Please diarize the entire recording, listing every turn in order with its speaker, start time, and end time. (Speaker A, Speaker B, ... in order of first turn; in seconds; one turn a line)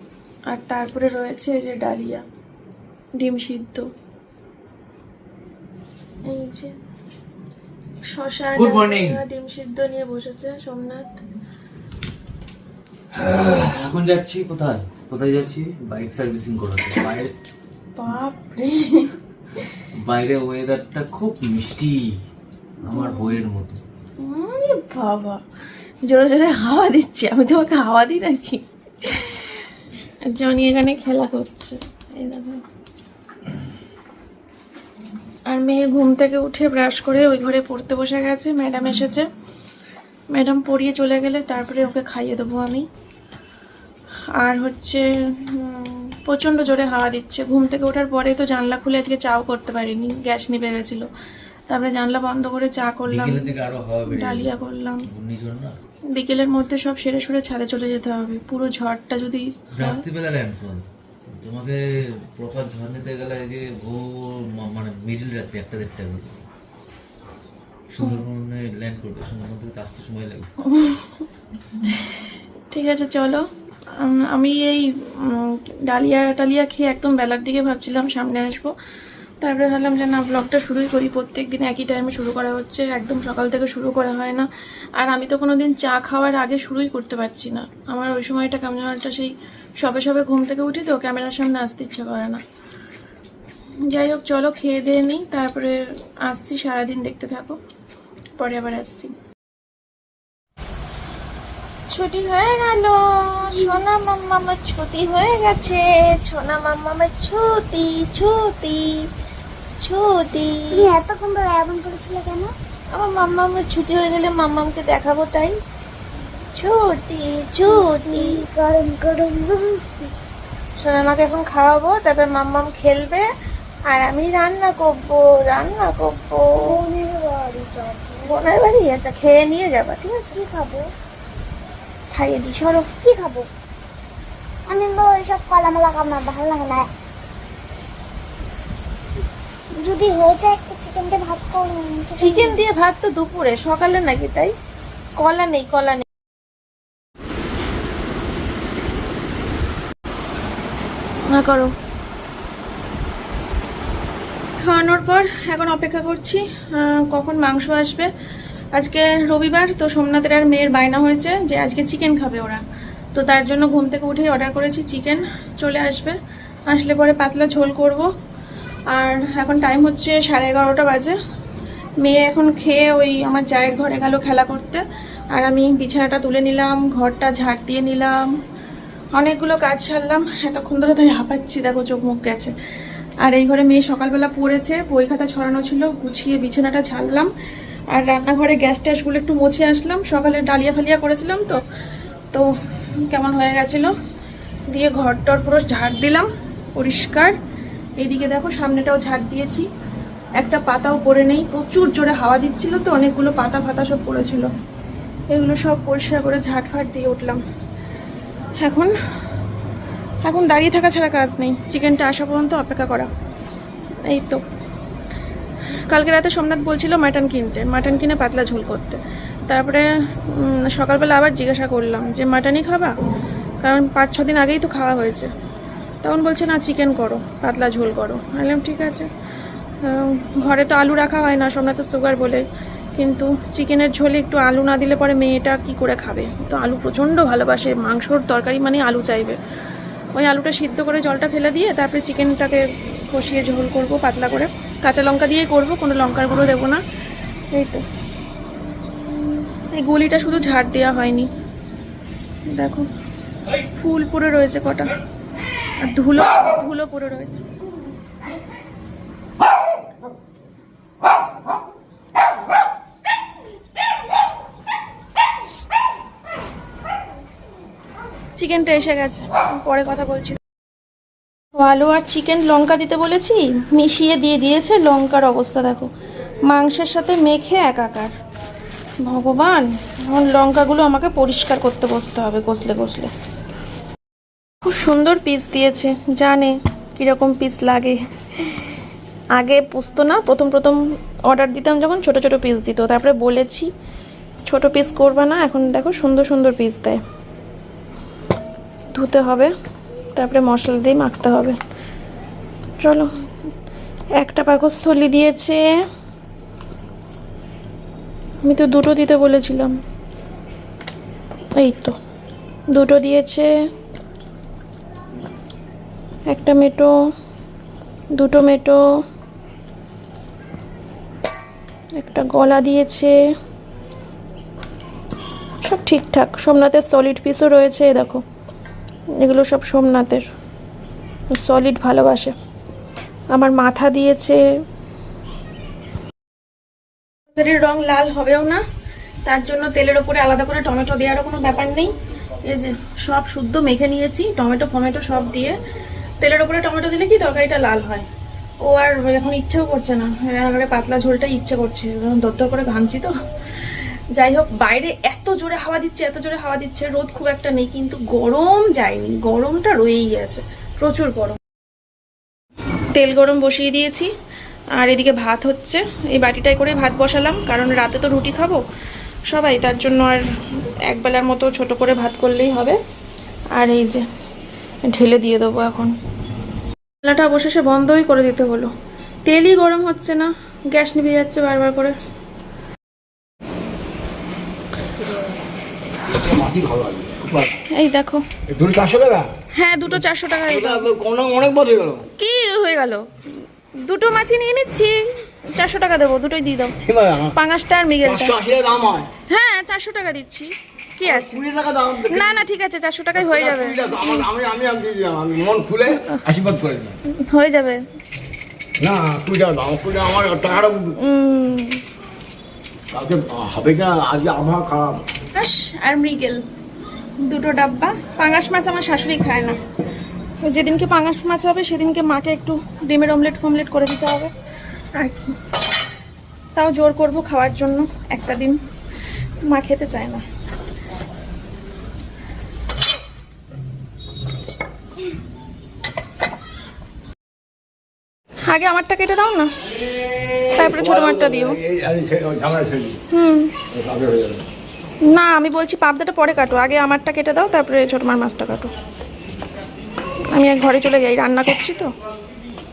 Speaker A: 0.5-2.2
Speaker A: 3.2-3.9
Speaker A: 6.2-6.7
Speaker A: 8.1-11.1
Speaker B: 8.6-9.2
Speaker B: 13.1-17.3
Speaker A: 18.0-19.1
Speaker B: 20.0-22.2
Speaker B: 22.8-23.8
Speaker A: 22.9-23.4
Speaker A: 24.2-25.4
Speaker A: 26.1-29.5
Speaker A: 30.2-32.6
Speaker A: 35.5-39.3
Speaker A: 40.3-42.9
Speaker A: 44.4-51.1
Speaker A: 51.7-53.5
Speaker B: 53.1-54.5
Speaker A: 54.1-55.0
Speaker B: 55.1-55.8
Speaker A: 56.2-60.0
Speaker B: 59.8-60.9
Speaker B: 61.4-61.8
Speaker B: 62.3-66.4
Speaker B: 67.9-70.5
Speaker A: 72.7-73.4
Speaker A: 74.0-78.7
Speaker A: 79.4-92.4
Speaker A: 93.9-97.6
Speaker A: 98.4-99.1
Speaker C: 101.9-109.0
Speaker C: 109.8-110.9
Speaker D: 110.7-112.5
Speaker C: 112.9-115.6
Speaker C: 116.6-118.5
Speaker D: 117.7-120.0
Speaker C: 120.8-123.3
Speaker C: 123.9-126.8
Speaker D: 126.6-128.5
Speaker C: 128.2-130.4
Speaker D: 130.3-130.9
Speaker C: 132.1-132.9
Speaker D: 133.0-133.5
Speaker D: 134.7-136.9
Speaker D: 139.8-142.6
Speaker C: 142.2-144.6
Speaker C: 145.2-146.1
Speaker A: 151.3-151.7
Speaker A: 154.6-158.1
Speaker A: 158.8-162.6
Speaker A: 163.1-166.2
Speaker A: 166.7-168.1
Speaker A: 168.9-171.2
Speaker A: 172.0-174.8
Speaker A: 175.3-178.2
Speaker A: 179.2-182.5
Speaker A: 183.2-187.3
Speaker A: 187.9-191.6
Speaker A: 192.3-193.9
Speaker A: 194.7-197.4
Speaker A: 198.0-199.7
Speaker A: 200.4-204.5
Speaker A: 205.3-207.4
Speaker A: 208.6-208.9
Speaker A: 210.2-213.1
Speaker A: 214.1-214.4
Speaker A: 215.9-222.9
Speaker A: 223.6-225.3
Speaker A: 226.0-229.1
Speaker A: 229.8-232.4
Speaker A: 233.0-239.4
Speaker A: 240.2-246.8
Speaker A: 247.5-247.8
Speaker A: 249.8-251.3
Speaker A: 252.5-252.9
Speaker A: 253.7-254.9
Speaker A: 255.8-257.5
Speaker A: 268.4-270.4
Speaker A: 271.6-275.9
Speaker A: 276.5-278.1
Speaker A: 279.0-283.1
Speaker A: 284.7-288.6
Speaker A: 289.4-293.7
Speaker A: 294.5-297.0
Speaker A: 298.9-299.5
Speaker A: 300.2-301.6
Speaker A: 302.8-303.1
Speaker A: 304.2-305.7
Speaker A: 308.4-309.8
Speaker A: 311.6-312.0
Speaker A: 312.7-313.5
Speaker A: 316.3-316.9
Speaker A: 318.2-318.8
Speaker A: 322.0-323.2
Speaker A: 325.6-328.2
Speaker A: 329.2-330.3
Speaker A: 331.3-332.3
Speaker A: 333.3-334.4
Speaker A: 337.3-338.6
Speaker A: 339.2-341.9
Speaker A: 342.4-345.6
Speaker A: 346.2-348.1
Speaker A: 348.6-353.1
Speaker A: 354.2-361.4
Speaker A: 362.9-364.1
Speaker A: 364.8-368.6
Speaker A: 369.3-370.2
Speaker A: 370.9-372.8
Speaker A: 373.6-374.0
Speaker A: 374.9-375.9
Speaker A: 377.0-378.7
Speaker A: 379.3-381.9
Speaker E: 386.1-387.6
Speaker A: 387.7-388.2
Speaker E: 388.5-389.3
Speaker A: 389.5-390.9
Speaker E: 389.9-392.1
Speaker A: 392.2-393.1
Speaker A: 393.8-396.7
Speaker E: 396.9-397.4
Speaker A: 397.4-398.3
Speaker E: 398.0-399.1
Speaker A: 399.3-401.4
Speaker E: 401.1-402.4
Speaker A: 402.1-404.1
Speaker E: 403.2-407.0
Speaker A: 407.2-407.8
Speaker E: 408.8-411.0
Speaker A: 411.0-411.8
Speaker E: 412.9-415.0
Speaker A: 415.4-416.4
Speaker A: 417.2-419.6
Speaker A: 420.4-424.3
Speaker A: 425.0-425.4
Speaker A: 426.6-428.6
Speaker A: 429.5-430.2
Speaker A: 438.4-439.6
Speaker E: 440.6-443.0
Speaker A: 440.6-441.6
Speaker A: 443.1-443.5
Speaker E: 443.7-444.4
Speaker A: 445.1-448.7
Speaker A: 450.3-451.9